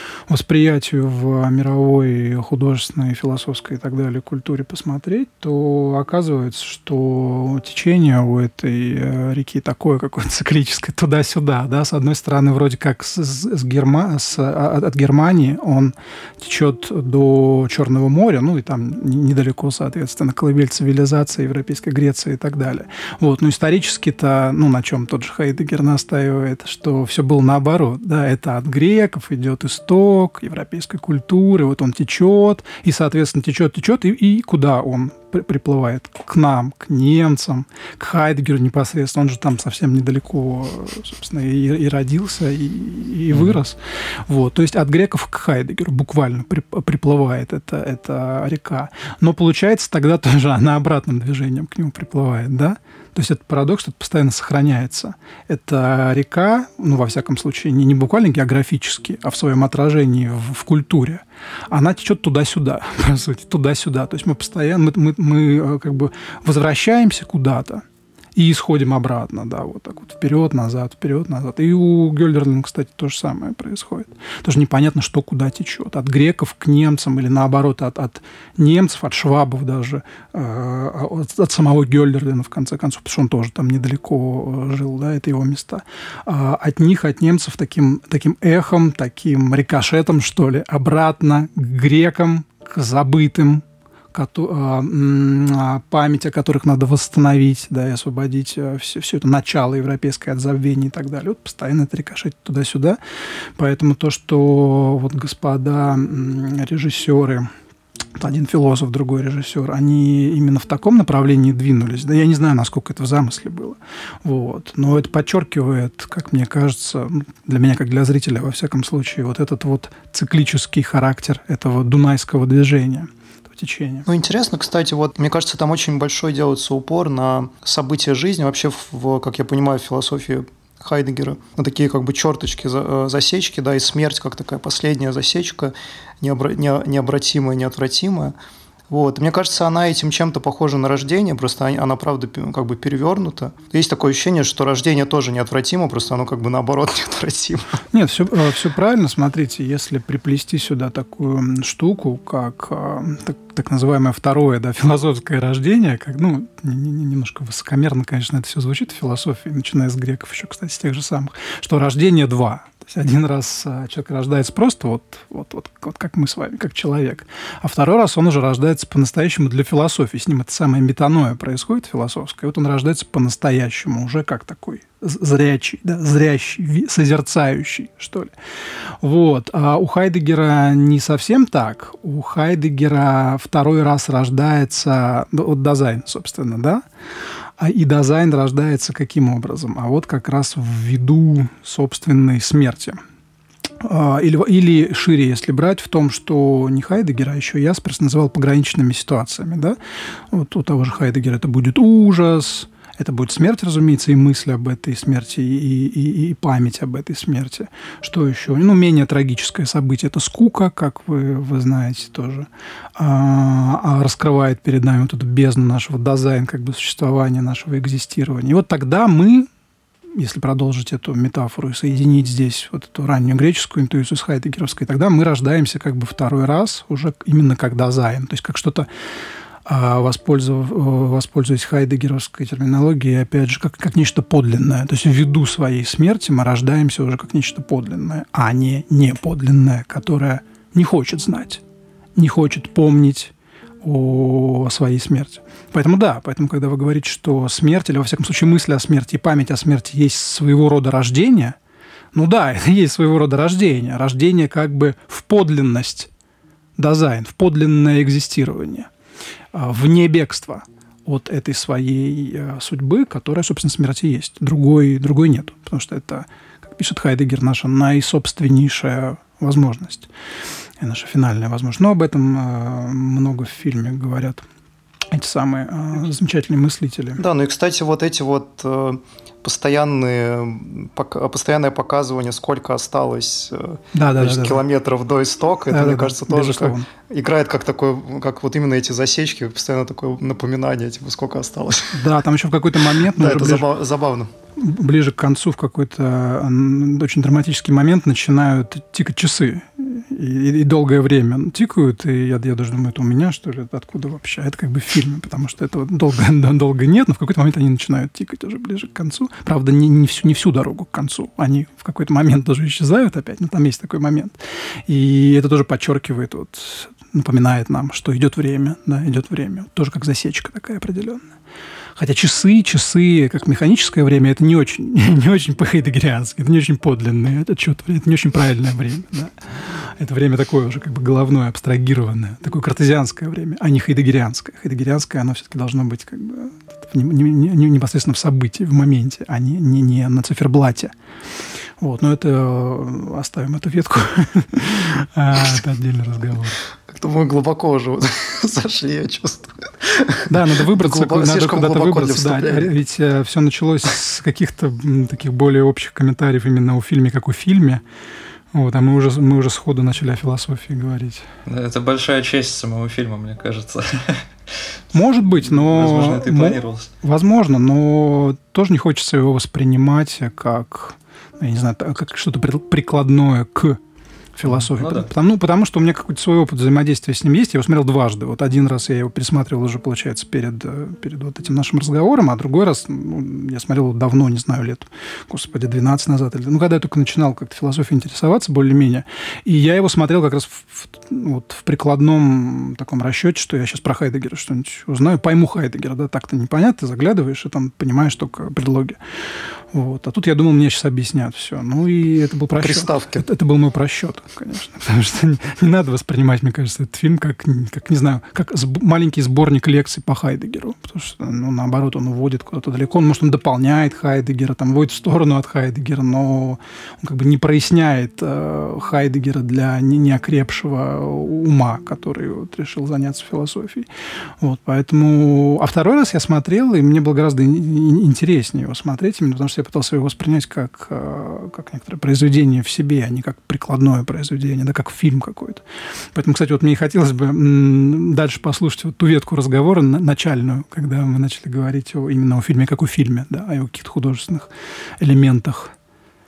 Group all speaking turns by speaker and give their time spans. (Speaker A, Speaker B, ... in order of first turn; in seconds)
Speaker A: 0.3-67.8, 68.3-103.0, 103.6-107.5, 108.2-124.1, 147.9-178.3, 178.9-186.8, 187.6-193.0, 193.8-199.8, 200.3-219.5, 220.2-228.9, 229.7-241.6, 242.2-251.6, 252.1-256.1, 256.8-258.9, 259.5-270.1, 270.8-274.4, 275.1-277.2, 283.9-284.6, 285.7-286.9, 291.9-293.7, 294.6-321.3, 322.0-340.9, 341.8-346.6, 350.3-357.8, 358.5-361.3, 364.9-373.8, 374.4-423.9, 424.4-445.7
Speaker B: 43.3-43.6, 361.5-364.6, 365.4-366.9, 374.4-375.1
Speaker C: 124.1-138.3, 138.9-147.8, 277.2-292.1, 292.9-294.3, 346.9-352.7, 402.6-403.3